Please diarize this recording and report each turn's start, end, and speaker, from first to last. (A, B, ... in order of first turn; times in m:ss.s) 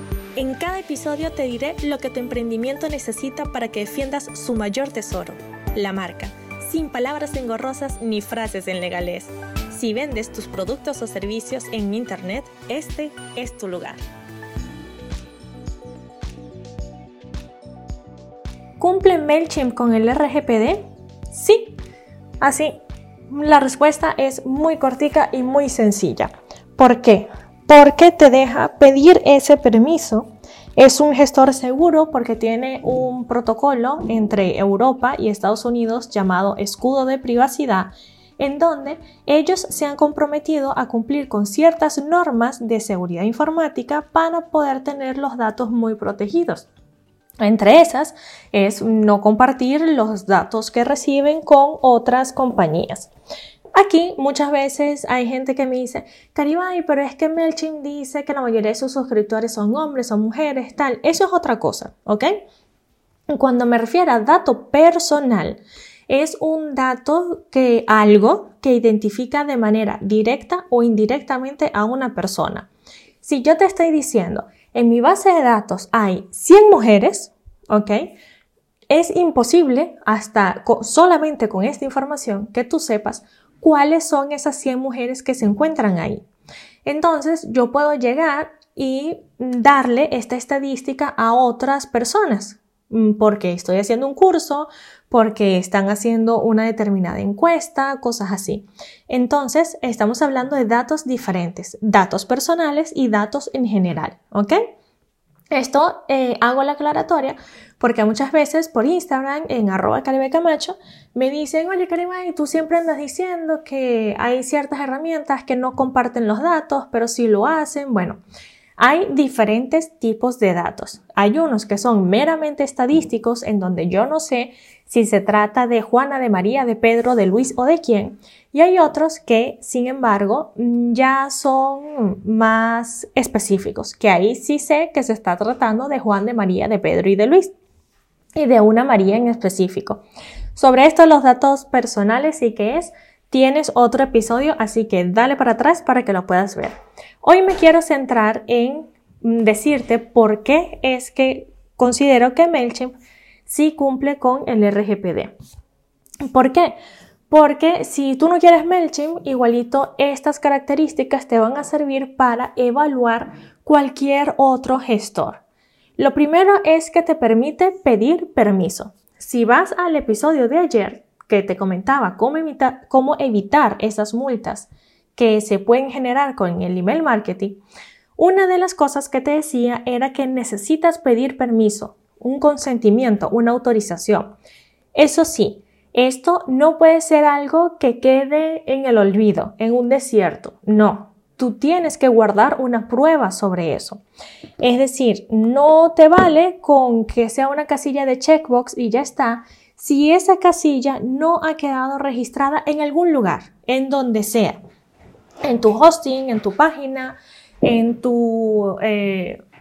0:00.4-0:14.0 A
0:18.8-0:21.8 A
0:22.4-0:22.8 A
0:23.3-0:46.7 A
0:47.4-0:53.1 A
0:53.7-1:02.4 A
1:03.3-1:12.7 A
1:13.2-1:18.2 A
1:18.9-1:26.3 A
1:26.8-1:44.6 A
1:45.5-1:58.2 A
1:58.8-2:17.6 A
2:18.4-2:20.0 A
2:20.6-2:32.9 A
2:33.5-2:35.4 A
2:36.3-2:36.8 A
2:37.3-2:45.4 A
2:46.0-2:57.6 A
2:58.2-3:04.4 A
3:05.0-3:14.0 A
3:14.6-3:24.6 A
3:25.4-3:29.4 A